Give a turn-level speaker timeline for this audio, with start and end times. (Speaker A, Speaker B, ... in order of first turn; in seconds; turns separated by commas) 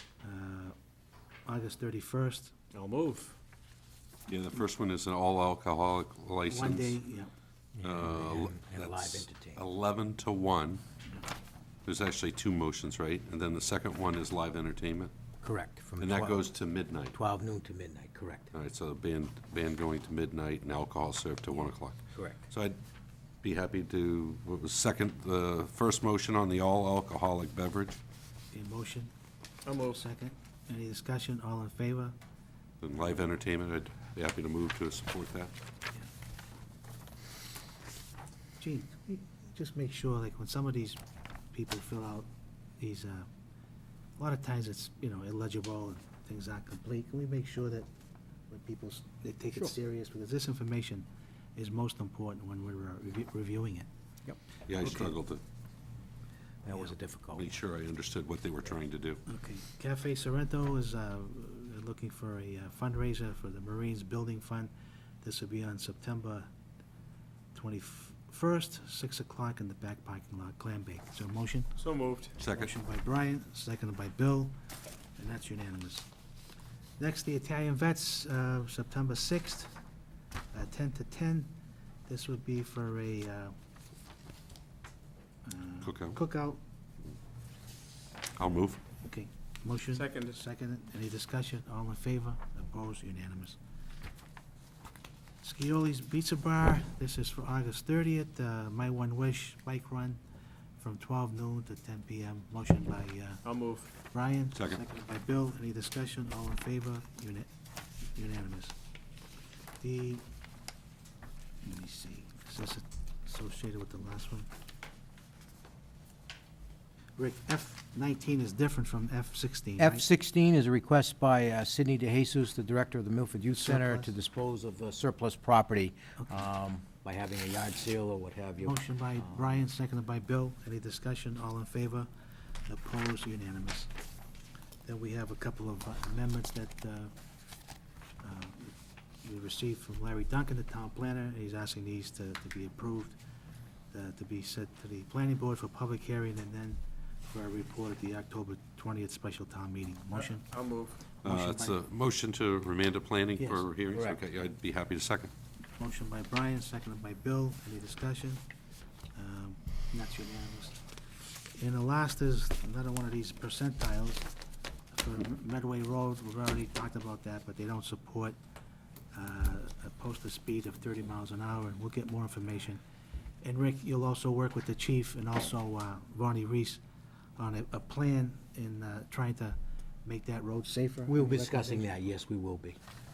Speaker A: 0.2-0.8, Speaker A: 1.5-2.5, Speaker B: 2.7-3.4, Speaker C: 4.3-7.0, Speaker A: 6.5-7.3, Speaker D: 7.8-9.6, Speaker C: 7.8-10.8, Speaker C: 11.9-15.1, Speaker D: 15.4-16.4, Speaker C: 16.0-17.2, Speaker D: 17.1-18.5, Speaker C: 18.5-22.8, Speaker C: 23.4-28.0, Speaker A: 28.5-29.1, Speaker B: 29.7-30.0, Speaker A: 29.8-32.1, Speaker C: 32.8-35.5, Speaker A: 38.6-41.0, Speaker A: 41.5-42.3, Speaker A: 42.8-43.3, Speaker A: 44.2-47.9, Speaker A: 48.5-53.9, Speaker D: 54.3-55.1, Speaker C: 54.7-55.4, Speaker D: 56.6-57.5, Speaker C: 57.3-59.2, Speaker A: 59.3-66.5, Speaker A: 67.5-71.8, Speaker B: 71.8-72.3, Speaker C: 72.4-72.7, Speaker A: 72.4-74.5, Speaker A: 75.2-76.1, Speaker A: 77.0-79.7, Speaker A: 80.5-81.5, Speaker A: 82.1-83.5, Speaker A: 85.4-86.6, Speaker C: 85.8-86.2, Speaker C: 88.4-88.8, Speaker A: 89.0-93.6, Speaker B: 89.9-90.4, Speaker A: 95.4-100.2, Speaker A: 100.8-107.5, Speaker B: 103.4-103.9, Speaker C: 104.5-104.8, Speaker A: 108.1-108.8, Speaker A: 109.8-110.2, Speaker A: 111.6-114.5, Speaker A: 117.2-120.0, Speaker D: 119.8-129.6, Speaker A: 123.6-124.1, Speaker A: 128.6-132.1, Speaker A: 132.7-133.9, Speaker A: 134.8-137.1, Speaker A: 138.2-143.2, Speaker A: 143.9-150.5, Speaker B: 150.2-151.0, Speaker A: 151.2-151.8, Speaker C: 151.2-155.3, Speaker A: 153.4-153.6, Speaker D: 153.9-154.2, Speaker A: 155.8-158.4, Speaker A: 159.2-160.8, Speaker A: 161.6-164.3, Speaker A: 164.9-168.4, Speaker A: 169.1-172.8, Speaker A: 173.4-176.8, Speaker A: 177.4-181.9, Speaker D: 181.1-182.8